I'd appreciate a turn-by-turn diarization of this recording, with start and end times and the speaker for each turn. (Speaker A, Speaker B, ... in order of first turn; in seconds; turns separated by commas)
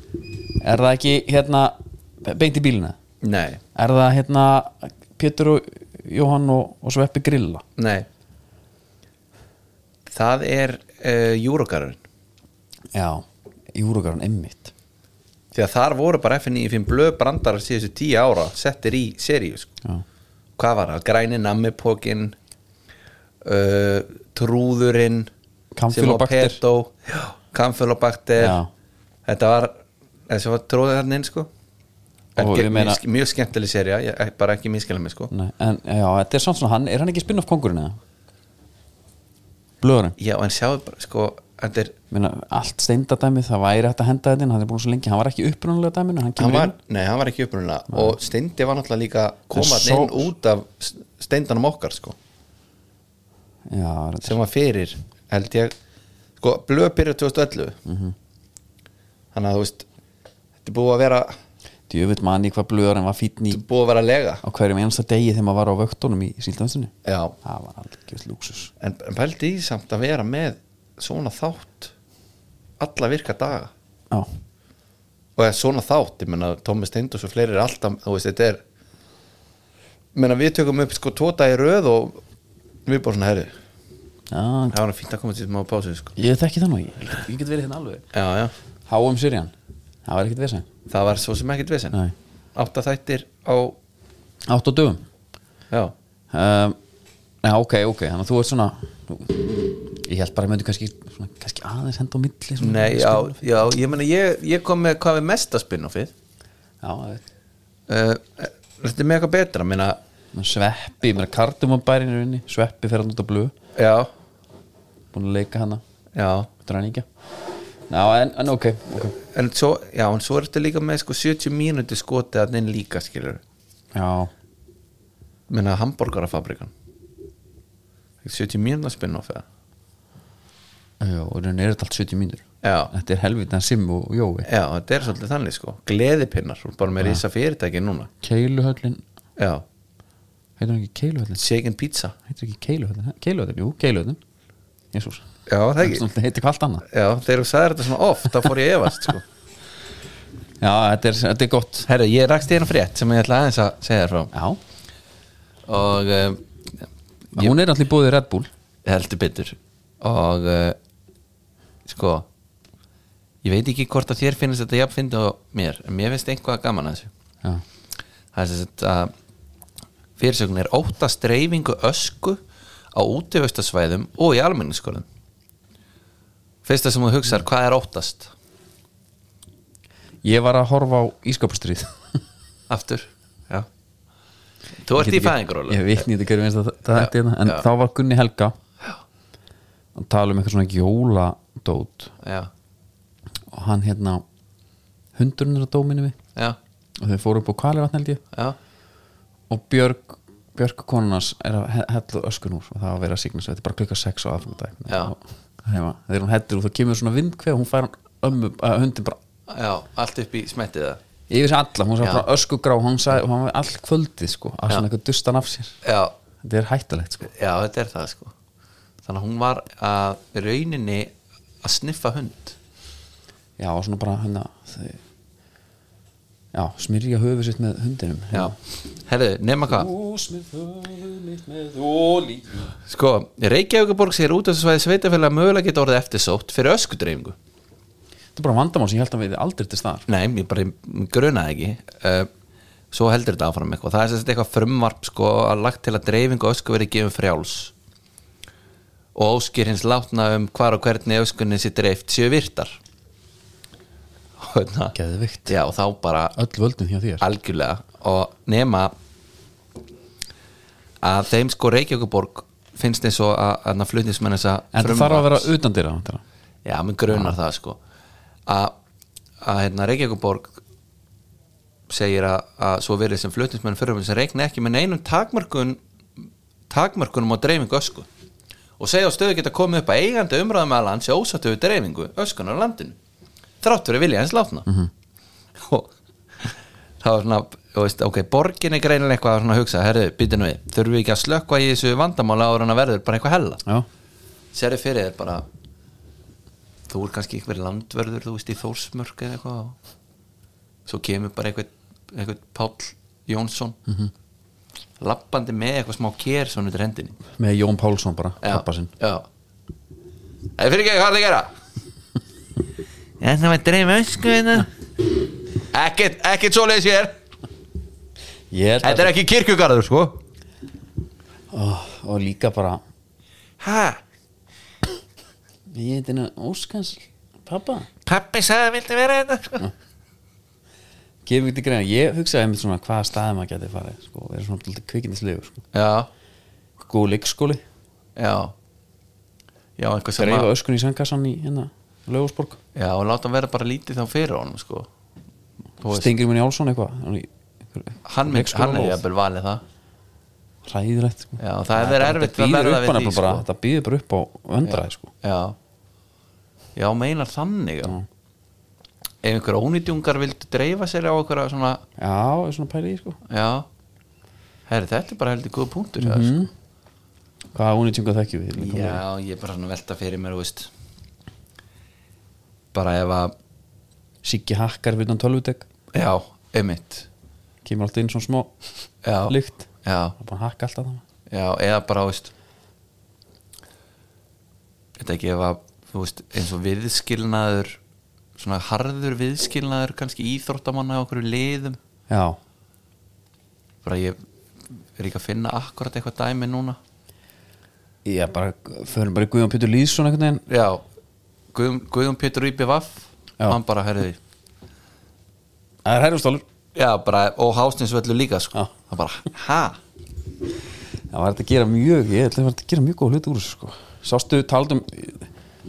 Speaker A: 0.6-3.0, Speaker B: 3.2-3.6, Speaker A: 3.7-7.6, Speaker B: 7.8-8.1, Speaker B: 10.1-12.0, Speaker A: 12.9-14.7, Speaker B: 15.5-19.7, Speaker B: 20.6-22.3, Speaker B: 23.4-25.3, Speaker A: 25.8-26.6, Speaker B: 25.9-28.6, Speaker A: 28.4-28.7, Speaker B: 29.2-29.7, Speaker B: 30.3-31.5, Speaker B: 32.4-35.3, Speaker A: 32.4-33.0, Speaker A: 35.3-38.0, Speaker A: 39.8-40.1, Speaker B: 40.2-41.9, Speaker A: 42.1-46.7, Speaker B: 46.4-52.2, Speaker A: 47.9-48.2, Speaker A: 49.5-50.3, Speaker A: 53.7-54.4, Speaker B: 54.2-55.7, Speaker B: 56.4-57.8, Speaker A: 57.9-58.1, Speaker B: 59.3-59.9, Speaker B: 60.6-61.3, Speaker A: 61.9-63.6, Speaker B: 63.5-64.4, Speaker A: 64.4-68.7, Speaker B: 67.0-67.3, Speaker B: 68.8-71.9, Speaker B: 72.8-73.7, Speaker B: 75.3-78.6, Speaker B: 80.1-82.2, Speaker B: 82.8-83.5, Speaker A: 84.3-84.8, Speaker B: 84.7-86.1, Speaker A: 86.2-88.0, Speaker B: 88.1-88.5, Speaker A: 88.9-89.5, Speaker A: 90.0-90.7, Speaker B: 90.9-92.0, Speaker B: 92.5-93.8, Speaker A: 94.5-95.0, Speaker A: 96.3-96.8, Speaker A: 97.4-103.8, Speaker B: 102.6-106.1, Speaker A: 106.8-107.2, Speaker B: 107.9-110.0, Speaker A: 110.3-113.5, Speaker B: 113.8-114.1, Speaker A: 115.1-115.8, Speaker B: 116.1-116.5, Speaker A: 116.6-117.1, Speaker A: 117.9-119.2, Speaker B: 119.2-123.4, Speaker A: 123.9-124.3, Speaker B: 125.5-126.7, Speaker B: 128.2-129.4, Speaker A: 131.0-134.5, Speaker B: 132.6-132.9, Speaker B: 134.4-138.1, Speaker A: 138.2-139.0, Speaker B: 139.4-139.6, Speaker A: 140.6-141.4, Speaker B: 141.4-142.1, Speaker A: 142.3-144.2, Speaker A: 144.9-145.3, Speaker B: 145.5-146.0, Speaker A: 145.8-146.8, Speaker B: 146.9-149.2, Speaker A: 150.6-151.9, Speaker B: 151.9-154.3, Speaker A: 154.3-154.6, Speaker B: 155.7-157.5, Speaker A: 157.3-158.5, Speaker B: 158.8-160.8, Speaker B: 161.8-162.3, Speaker B: 163.4-167.1, Speaker B: 168.3-169.1, Speaker B: 170.2-172.4, Speaker B: 172.9-175.1, Speaker B: 176.6-178.3, Speaker A: 180.2-181.9, Speaker B: 182.7-183.7, Speaker B: 184.8-186.1, Speaker A: 184.9-188.5, Speaker B: 186.9-187.6, Speaker A: 189.9-192.1, Speaker B: 192.2-192.5, Speaker A: 193.5-194.2, Speaker A: 195.2-196.2, Speaker A: 197.0-198.2, Speaker B: 198.3-198.6, Speaker A: 199.5-209.2, Speaker B: 204.9-205.1, Speaker B: 209.5-211.0, Speaker A: 211.3-215.8, Speaker B: 215.8-216.1, Speaker A: 216.4-217.3, Speaker B: 217.3-218.3, Speaker B: 219.0-222.6, Speaker A: 223.6-225.0, Speaker A: 226.5-228.5, Speaker B: 228.3-229.9, Speaker A: 229.7-232.8, Speaker B: 232.8-237.3, Speaker A: 238.3-240.1, Speaker B: 240.1-242.3, Speaker B: 242.9-247.7, Speaker B: 249.1-252.8, Speaker B: 254.4-254.9, Speaker A: 254.9-255.6, Speaker B: 255.5-256.4, Speaker A: 256.3-257.2, Speaker B: 257.2-258.9, Speaker B: 261.0-265.5, Speaker A: 264.7-266.2, Speaker B: 266.6-267.8, Speaker A: 267.1-267.3, Speaker B: 268.4-268.7, Speaker B: 269.4-270.6, Speaker B: 271.9-278.1, Speaker B: 278.8-283.0, Speaker B: 283.6-284.7, Speaker B: 285.5-293.6, Speaker B: 294.5-295.4, Speaker B: 296.9-299.8, Speaker B: 300.9-303.8, Speaker B: 305.0-307.2, Speaker A: 307.4-308.9, Speaker B: 308.4-309.3, Speaker B: 310.6-311.5, Speaker B: 313.2-314.7, Speaker B: 315.6-317.2, Speaker A: 318.5-319.1, Speaker B: 318.8-320.2, Speaker A: 321.5-322.8, Speaker B: 323.6-324.0, Speaker A: 325.7-327.9, Speaker B: 328.0-329.7, Speaker A: 331.2-335.6, Speaker B: 335.7-336.1, Speaker A: 336.8-337.6, Speaker B: 338.1-338.5, Speaker B: 339.8-340.5, Speaker A: 340.2-342.6, Speaker B: 342.7-344.9, Speaker B: 345.8-346.1, Speaker A: 345.9-349.0, Speaker B: 348.1-349.6, Speaker A: 350.6-355.1, Speaker B: 351.4-353.4, Speaker B: 354.6-355.6, Speaker B: 356.7-357.9, Speaker B: 359.2-361.8, Speaker A: 362.0-363.2, Speaker B: 363.2-363.7, Speaker B: 364.7-366.4, Speaker A: 366.0-366.5, Speaker A: 367.5-369.0, Speaker B: 368.6-370.7, Speaker B: 372.7-373.3, Speaker A: 374.2-375.6, Speaker B: 375.9-377.1, Speaker A: 377.6-378.5, Speaker B: 379.0-380.1, Speaker A: 379.3-381.0, Speaker B: 381.3-382.3, Speaker B: 385.0-387.8, Speaker B: 388.4-391.8, Speaker A: 392.1-392.4, Speaker B: 393.8-394.2, Speaker B: 394.9-396.8, Speaker A: 398.0-400.4, Speaker B: 400.5-400.8, Speaker B: 401.5-404.2, Speaker A: 405.8-406.4, Speaker B: 406.7-409.8, Speaker A: 411.1-415.3